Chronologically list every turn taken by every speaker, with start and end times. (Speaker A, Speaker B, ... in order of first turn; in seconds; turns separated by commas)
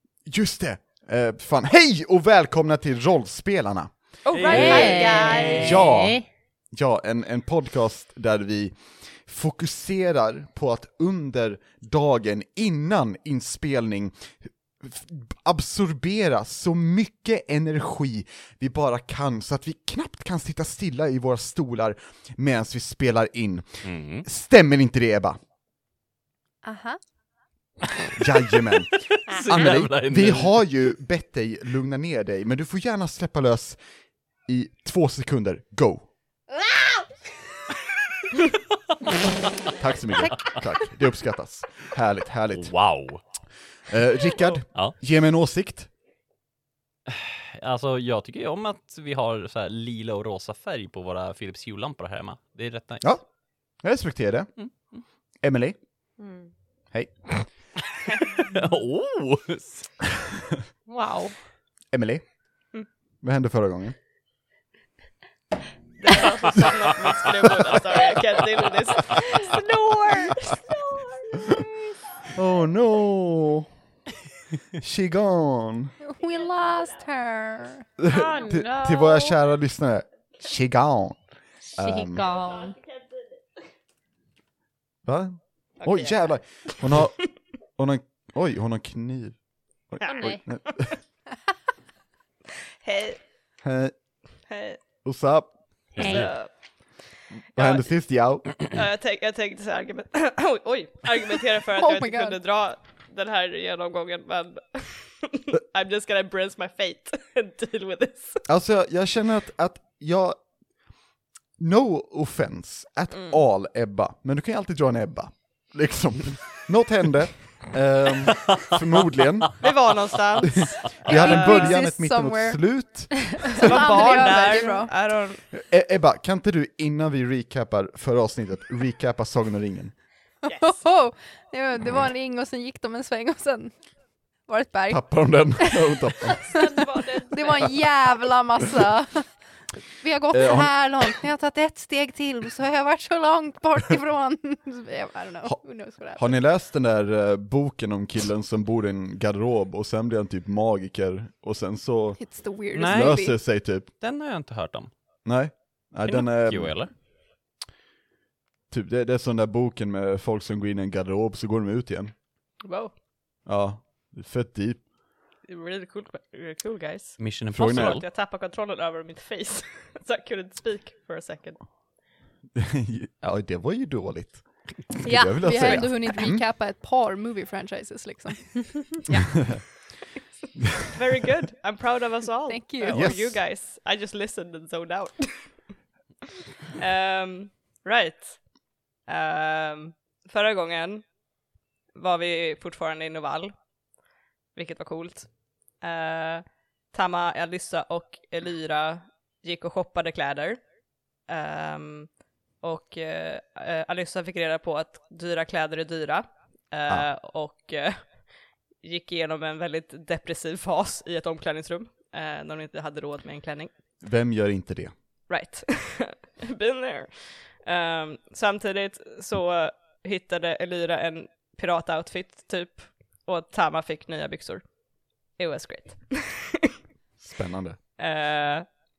Speaker A: 0.2-4.1, Speaker B: 4.2-5.8, Speaker C: 4.3-5.6, Speaker D: 4.5-6.2, Speaker E: 4.5-5.3, Speaker A: 5.5-25.4, Speaker C: 23.8-24.2, Speaker E: 26.6-27.0, Speaker A: 28.1-33.8, Speaker C: 29.2-30.7, Speaker A: 34.4-36.1, Speaker A: 39.8-42.9, Speaker C: 42.5-43.2, Speaker A: 43.9-45.9, Speaker C: 47.1-53.2, Speaker A: 53.0-53.3, Speaker A: 53.8-54.5, Speaker C: 54.6-55.0, Speaker A: 55.4-55.8, Speaker A: 56.9-57.5, Speaker C: 58.3-59.9, Speaker D: 60.9-61.3, Speaker A: 61.9-62.3, Speaker A: 63.2-64.0, Speaker B: 66.0-71.4, Speaker A: 72.3-73.7, Speaker A: 74.7-75.9, Speaker E: 76.0-77.8, Speaker A: 78.0-81.2, Speaker D: 78.1-79.4, Speaker D: 81.7-82.8, Speaker A: 81.7-82.3, Speaker A: 85.0-89.4, Speaker B: 85.8-86.9, Speaker A: 89.9-91.0, Speaker B: 90.0-90.6, Speaker D: 90.0-90.4, Speaker B: 92.8-93.2, Speaker A: 93.6-93.9, Speaker B: 94.5-94.8, Speaker A: 95.0-96.2, Speaker C: 95.9-96.3, Speaker B: 96.0-96.5, Speaker A: 97.5-98.6, Speaker B: 97.5-97.9, Speaker B: 98.7-108.4, Speaker E: 101.8-102.4, Speaker A: 108.5-110.4, Speaker A: 111.6-119.7, Speaker B: 113.1-113.4, Speaker B: 119.6-121.8, Speaker A: 120.4-124.0, Speaker E: 121.0-124.9, Speaker B: 123.5-125.4, Speaker A: 125.5-130.0, Speaker B: 130.4-130.7, Speaker E: 130.5-133.8, Speaker E: 134.4-139.3, Speaker A: 134.9-136.6, Speaker B: 136.5-137.9, Speaker E: 140.0-146.3, Speaker A: 140.3-140.7, Speaker A: 146.1-153.9, Speaker E: 152.2-153.3, Speaker C: 152.7-153.3, Speaker C: 154.0-154.9, Speaker A: 155.2-156.8, Speaker C: 156.0-156.9, Speaker A: 158.7-162.1, Speaker B: 162.6-162.9, Speaker A: 163.4-164.8, Speaker B: 165.5-171.6, Speaker C: 167.2-168.0, Speaker A: 167.5-168.0, Speaker A: 172.5-176.4, Speaker E: 175.3-179.5, Speaker B: 175.4-175.8, Speaker B: 180.9-185.7, Speaker E: 182.5-183.1, Speaker A: 182.9-183.4, Speaker B: 186.7-188.5, Speaker B: 189.0-191.1, Speaker B: 191.9-193.5, Speaker B: 194.5-200.6, Speaker B: 201.3-208.2, Speaker B: 208.8-213.7, Speaker A: 214.0-214.9, Speaker B: 215.3-224.7, Speaker B: 225.4-226.7, Speaker A: 227.2-227.8, Speaker B: 228.0-228.7